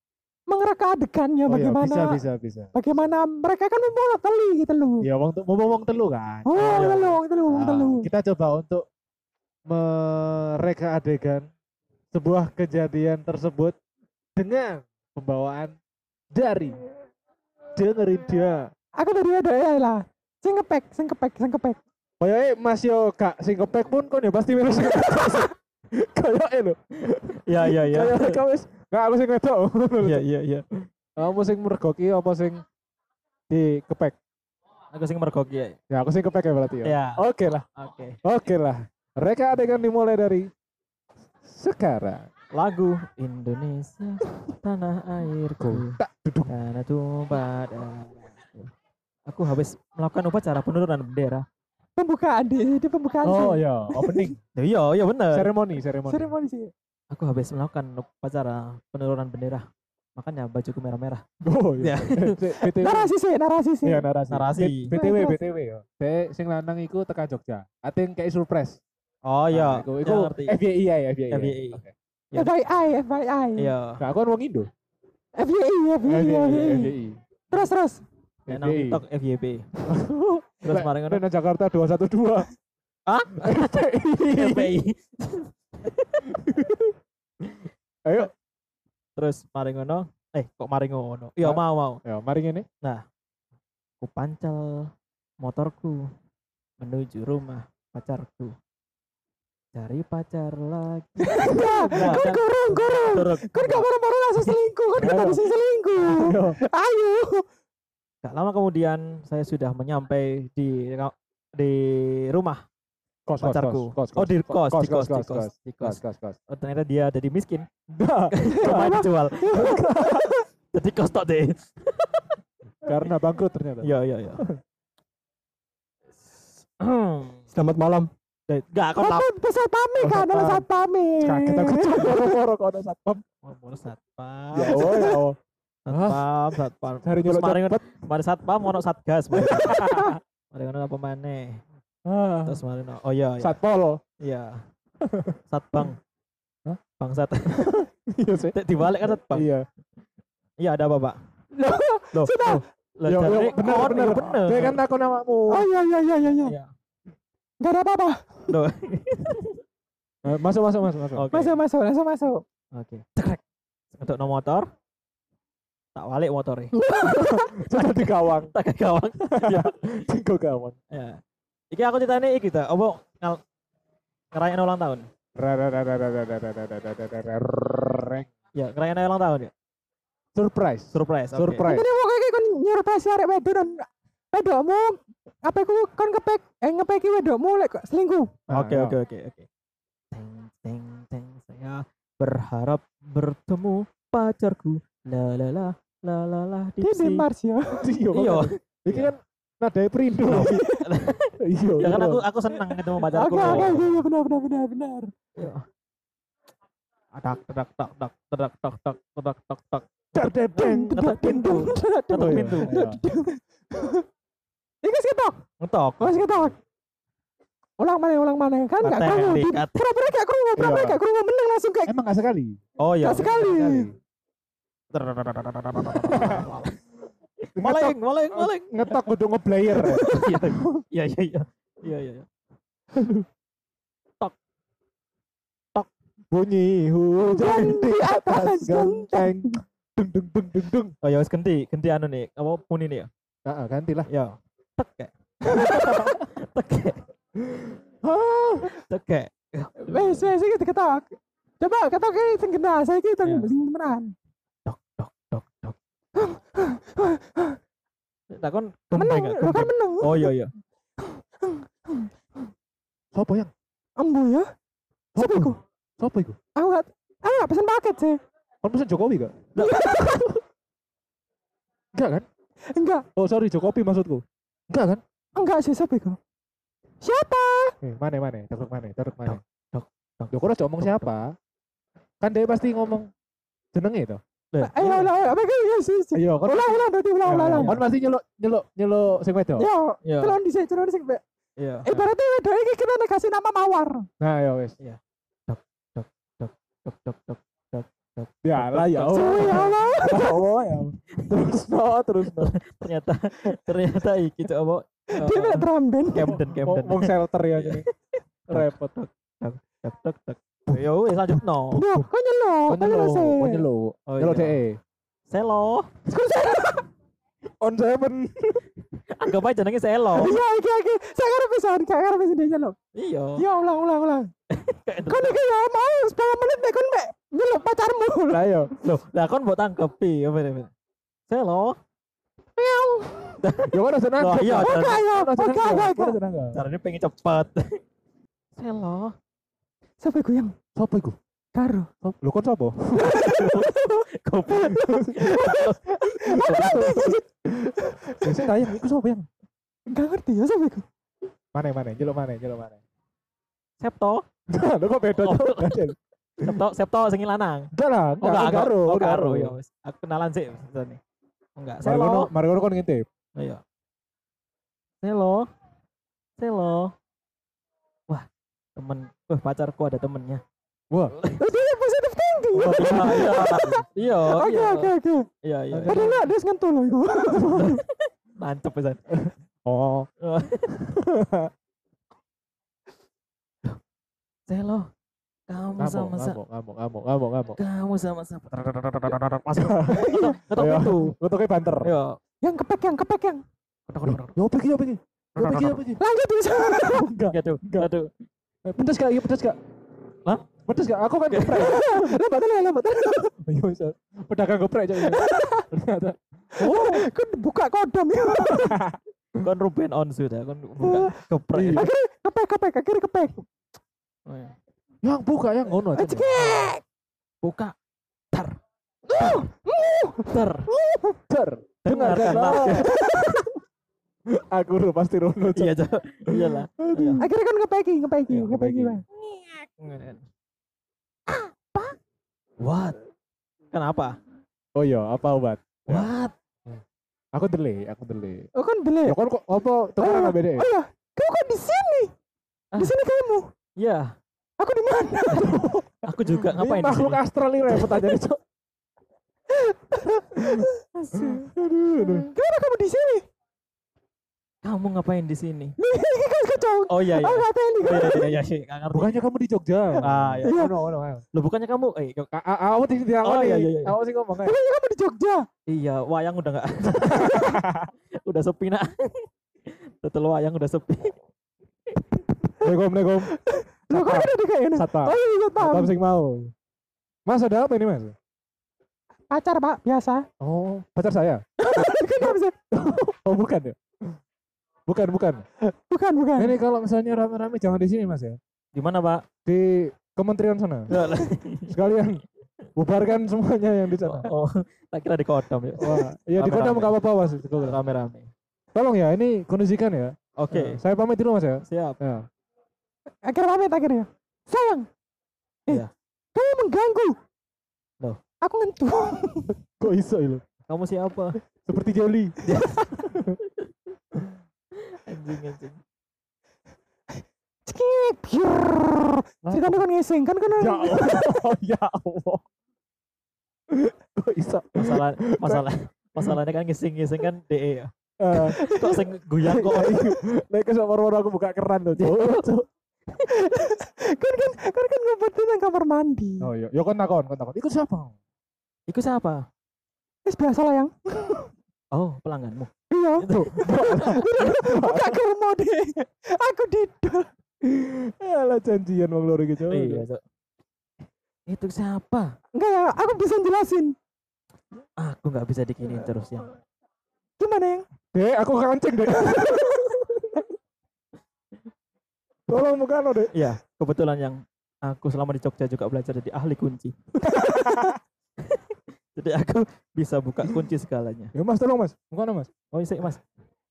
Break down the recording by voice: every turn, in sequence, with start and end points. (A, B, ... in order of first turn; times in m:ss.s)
0:00.5-0:02.2 A
0:01.5-0:02.8 B
0:02.7-0:05.1 A
0:05.0-0:06.9 B
0:06.4-0:08.1 A
0:06.6-0:07.2 C
0:07.5-0:08.8 B
0:09.7-0:11.5 B
0:12.1-0:13.8 B
0:14.4-0:15.8 B
0:16.3-0:16.8 B
0:17.8-0:18.7 B
0:19.0-0:21.8 A
0:22.2-0:30.2 B
0:27.4-0:28.4 C
0:30.0-0:30.6 C
0:31.2-0:32.6 B
0:33.5-0:34.2 B
0:34.9-0:35.8 C
0:35.9-0:37.6 B
0:36.8-0:37.2 C
0:37.8-0:38.2 C
0:38.2-0:40.5 B
0:41.4-0:42.2 B
0:42.5-0:46.0 C
0:45.6-0:46.5 B
0:46.5-0:48.7 C
0:49.3-0:51.4 C
0:52.0-0:54.3 A
0:53.2-0:54.4 B
0:54.5-0:55.5 C
0:55.3-0:56.3 B
0:56.1-0:56.7 A
0:57.1-0:59.6 C
1:00.2-1:01.2 C
1:01.4-1:03.1 B
1:01.8-1:02.6 C
1:02.8-1:04.0 A
1:03.8-1:08.8 B
1:04.3-1:04.9 C
1:04.9-1:05.4 A
1:09.2-1:10.6 C
1:09.5-1:11.9 B
1:11.3-1:12.5 C
1:12.3-1:13.7 A
1:13.6-1:14.0 C
1:14.0-1:14.7 B
1:15.4-1:16.9 A
1:16.0-1:17.2 B
1:17.5-1:18.0 A
1:18.5-1:19.0 B
1:18.5-1:19.6 C
1:19.9-1:22.5 B
1:20.6-1:21.2 C
1:23.1-1:26.3 C
1:23.4-1:24.8 B
1:26.3-1:26.9 B
1:28.0-1:28.3 B
1:29.2-1:32.0 C
1:31.4-1:32.7 B
1:34.0-1:34.9 C
1:35.4-1:36.1 C
1:36.8-1:38.5 C
1:39.7-1:43.8 C
1:41.2-1:47.4 A
1:41.6-1:42.2 B
1:45.0-1:45.4 B
1:46.0-1:46.6 B
1:48.2-1:52.6 C
1:53.3-1:56.4 B
1:53.4-1:57.7 C
1:57.9-2:00.3 B
1:58.3-1:59.7 C
1:58.5-2:00.5 A
2:00.7-2:02.4 C
2:02.8-2:04.6 B
2:03.8-2:04.4 C
2:06.8-2:07.4 C
2:07.5-2:08.1 B
2:08.5-2:09.2 C
2:09.0-2:12.4 A
2:10.0-2:10.6 B
2:11.2-2:13.2 B
2:13.4-2:15.2 C
2:14.5-2:15.4 B
2:14.7-2:15.2 A
2:15.8-2:21.6 C
2:15.9-2:17.8 B
2:19.3-2:20.2 B
2:19.8-2:20.1 A
2:22.0-2:22.6 B
2:22.4-2:23.6 C
2:23.4-2:24.0 B
2:24.2-2:24.6 C
2:25.0-2:25.9 B
2:25.5-2:26.0 C
2:27.0-2:27.8 C
2:27.4-2:29.6 B
2:28.5-2:29.5 C
2:30.6-2:31.2 C
2:31.6-2:32.6 A
2:32.1-2:34.8 C
2:32.4-2:35.6 B
2:35.5-2:36.6 A
2:36.3-2:36.7 C
2:37.6-2:38.5 A
2:38.5-2:39.6 C
2:40.2-2:41.3 B
2:41.1-2:41.6 C
2:41.3-2:42.4 A
2:42.7-2:43.4 C
2:43.9-2:44.7 C
2:45.9-2:46.9 C
2:46.7-2:47.5 A
2:47.0-2:48.5 B
2:48.5-2:50.0 C
2:49.2-2:50.8 B
2:50.9-2:53.4 C
2:54.3-2:55.1 C
2:55.4-2:58.3 B
2:58.5-2:59.5 C
3:00.3-3:01.9 B
3:00.9-3:01.7 C
3:01.6-3:08.3 A
3:08.5-3:09.0 B
3:08.5-3:09.5 C
3:10.1-3:17.3 C
3:16.8-3:17.8 A
3:17.8-3:20.6 B
3:18.1-3:19.1 C
3:20.2-3:24.0 C
3:20.3-3:20.9 A
3:21.4-3:22.2 B
3:23.1-3:25.1 A
3:25.4-3:25.6 C
3:27.1-3:32.9 C
3:30.1-3:31.0 B
3:30.6-3:34.0 A
3:32.2-3:33.0 B
3:34.8-3:35.4 A
3:35.6-3:36.5 C
3:36.0-3:36.5 A
3:37.8-3:42.0 A
3:38.8-3:39.8 C
3:40.6-3:41.0 B
3:41.8-3:42.6 B
3:42.8-3:43.8 C
3:43.0-3:43.9 A
3:43.6-3:43.8 B
3:44.9-3:46.7 C
3:45.9-3:46.5 B
3:47.4-3:49.1 C
3:47.6-3:50.6 B
3:49.8-3:52.3 C
3:49.8-3:50.4 A
3:52.9-3:53.2 B
3:56.3-4:00.9 B
3:57.3-3:59.6 A
4:01.0-4:03.1 C
4:03.4-4:04.1 B
4:04.1-4:07.0 C
4:05.5-4:06.2 B
4:08.0-4:08.8 B
4:08.8-4:10.3 C
4:09.9-4:14.1 A
4:14.6-4:15.8 C
4:16.2-4:17.6 A
4:18.3-4:20.5 C
4:18.9-4:20.3 A
4:21.0-4:22.1 A
4:23.1-4:23.5 B
4:24.0-4:24.5 A
4:25.1-4:26.4 B
4:25.2-4:25.6 A
4:26.6-4:28.2 A
4:28.6-4:29.4 B
4:29.5-4:30.2 C
4:29.6-4:30.4 A
4:31.9-4:32.2 B
4:32.7-4:33.0 A
4:33.2-4:35.0 B
4:35.4-4:36.2 A
4:37.0-4:37.7 A
4:37.8-4:39.4 B
4:39.3-4:41.1 C
4:40.3-4:41.3 B
4:42.2-4:43.1 B
4:43.7-4:44.2 B
4:44.5-4:45.1 C
4:44.6-4:47.8 A
4:46.1-4:46.8 B
4:47.2-4:47.8 C
4:47.6-4:49.7 B
4:49.6-4:51.2 A
4:50.0-4:50.4 C
4:51.6-4:52.1 C
4:51.8-4:54.1 A
4:54.2-4:54.7 B
4:54.8-4:59.9 C
4:58.4-5:02.5 B
4:59.1-5:00.4 A
5:02.4-5:07.9 C
5:05.1-5:06.4 A
5:06.2-5:07.8 B
5:08.5-5:11.8 C
5:08.5-5:08.9 B
5:10.7-5:12.1 B
5:11.7-5:13.6 A
5:12.7-5:14.8 B
5:14.1-5:14.6 C
5:15.3-5:15.9 C
5:16.1-5:16.8 A
5:17.6-5:18.6 B
5:19.1-5:20.4 C
5:20.1-5:22.8 A
5:22.9-5:23.4 C
5:23.4-5:24.3 A
5:24.5-5:25.4 C
5:25.0-5:28.5 A
5:28.3-5:28.7 B
5:28.8-5:30.7 C
5:31.3-5:31.8 C
5:32.6-5:33.4 A
5:33.4-5:35.0 C
5:33.7-5:36.6 B
5:34.5-5:36.2 A
5:36.5-5:37.8 C
5:38.6-5:39.1 C
5:40.0-5:40.5 A
5:40.8-5:41.2 B
5:41.5-5:41.9 A
5:42.0-5:43.2 B
5:43.0-5:48.4 A
5:43.2-5:45.8 C
5:44.7-5:45.5 B
5:46.3-5:49.3 B
5:46.4-5:46.8 C
5:49.9-5:50.8 A
5:51.5-5:52.8 B
5:53.8-5:54.2 C
5:54.5-5:56.6 B
5:55.2-6:01.0 C
5:57.7-5:59.6 B
6:01.6-6:02.3 C
6:01.8-6:03.0 B
6:03.4-6:03.6 C
6:05.0-6:05.5 C
6:06.4-6:06.9 C
6:08.1-6:10.4 C
6:10.9-6:11.2 B
6:11.4-6:15.3 A
6:12.5-6:13.6 B
6:12.6-6:16.2 C
6:15.7-6:16.1 B
6:15.9-6:17.8 A
6:17.5-6:19.0 C
6:19.1-6:20.1 B
6:20.2-6:20.8 C
6:20.7-6:21.5 B
6:24.5-6:24.9 C
6:25.5-6:26.4 C
6:25.8-6:27.6 B
6:27.6-6:31.2 C
6:29.5-6:31.9 B
6:29.9-6:30.4 A
6:31.8-6:32.2 C
6:32.4-6:33.4 A
6:33.9-6:34.4 C
6:34.0-6:36.0 B
6:35.4-6:35.8 C
6:36.0-6:37.1 A
6:36.7-6:37.9 B
6:37.3-6:38.1 C
6:38.6-6:39.6 B
6:40.6-6:42.2 B
6:41.3-6:41.7 C
6:41.5-6:43.3 A
6:43.4-6:47.1 B
6:45.0-6:45.7 A
6:46.6-6:48.8 A
6:48.4-6:49.4 B
6:49.4-6:51.8 C
6:50.8-6:51.1 A
6:51.5-6:51.9 B
6:51.7-6:53.4 A
6:54.3-6:54.5 C
6:55.0-6:56.5 B
6:55.9-6:56.8 A
6:57.4-6:57.7 C
6:58.3-6:58.6 C
6:59.1-7:01.2 A
7:00.2-7:00.7 C
7:01.3-7:03.0 B
7:01.8-7:03.0 C
7:02.6-7:03.5 A
7:04.3-7:05.8 B
7:05.5-7:07.2 C
7:06.3-7:07.2 B
7:07.2-7:09.0 A
7:08.3-7:08.8 C
7:08.5-7:09.0 B
7:09.8-7:10.2 C
7:11.3-7:11.9 C
7:12.6-7:13.0 C
7:13.7-7:14.2 C
7:14.8-7:16.1 B
7:15.9-7:16.3 C
7:17.3-7:18.5 B
7:18.5-7:19.2 A
7:19.0-7:20.7 B
7:20.0-7:22.1 A
7:22.8-7:23.5 A
7:23.8-7:24.1 C
7:24.6-7:25.6 A
7:25.4-7:28.4 B
7:26.0-7:28.2 C
7:29.5-7:30.7 A
7:30.3-7:32.3 B
7:30.9-7:31.5 C
7:32.3-7:33.2 A
7:34.6-7:35.7 C
7:35.8-7:38.4 A
7:36.9-7:39.2 C
7:38.9-7:41.2 B
7:40.0-7:40.7 C
7:40.4-7:40.7 A
7:41.3-7:42.3 C
7:42.3-7:44.6 B
7:43.2-7:44.0 C
7:44.4-7:45.4 A
7:45.7-7:47.7 C
7:47.0-7:47.9 B
7:48.2-7:51.1 C
7:52.6-7:53.3 B
7:53.2-7:55.9 A
7:53.9-7:56.5 B
7:57.2-7:58.1 B
7:59.3-8:00.3 A
8:00.4-8:04.2 B
8:01.6-8:02.5 A
8:04.9-8:05.4 B
8:05.7-8:06.5 A
8:06.4-8:08.4 B
8:08.7-8:09.2 C
8:09.4-8:10.9 B
8:10.9-8:11.7 C
8:10.9-8:11.2 A
8:11.7-8:12.2 B
8:12.8-8:14.3 B
8:14.0-8:16.9 C
8:15.8-8:17.8 B
8:17.6-8:18.3 C
8:18.7-8:22.2 B
8:20.4-8:20.8 C
8:21.7-8:22.0 C
8:23.2-8:24.9 A
8:25.7-8:27.2 A
8:28.4-8:29.5 A
8:29.7-8:30.4 B
8:30.7-8:31.4 C
8:31.4-8:32.4 B
8:32.4-8:33.7 C
8:33.1-8:33.4 B
8:34.8-8:35.8 C
8:37.6-8:41.4 A
8:39.4-8:39.8 B
8:40.5-8:42.4 B
8:43.7-8:45.6 B
8:44.8-8:50.1 C
8:48.2-8:48.6 B
8:48.4-8:49.0 A
8:49.4-8:52.7 B
8:52.0-8:52.5 C
8:53.2-8:56.5 A
8:56.4-8:58.1 B
8:58.9-8:59.4 C
9:00.2-9:01.5 A
9:01.9-9:04.2 C
9:02.9-9:07.3 A
9:03.4-9:05.2 B
9:07.6-9:10.0 B
9:09.7-9:10.2 C
9:11.5-9:12.3 C
9:12.5-9:13.9 A
9:15.0-9:16.5 C
9:17.4-9:17.8 A
9:18.1-9:20.4 B
9:22.5-9:23.3 B
9:23.3-9:26.9 C
9:27.2-9:28.0 B
9:27.4-9:27.9 A
9:28.4-9:31.3 C
9:31.3-9:32.5 B
9:32.7-9:33.2 C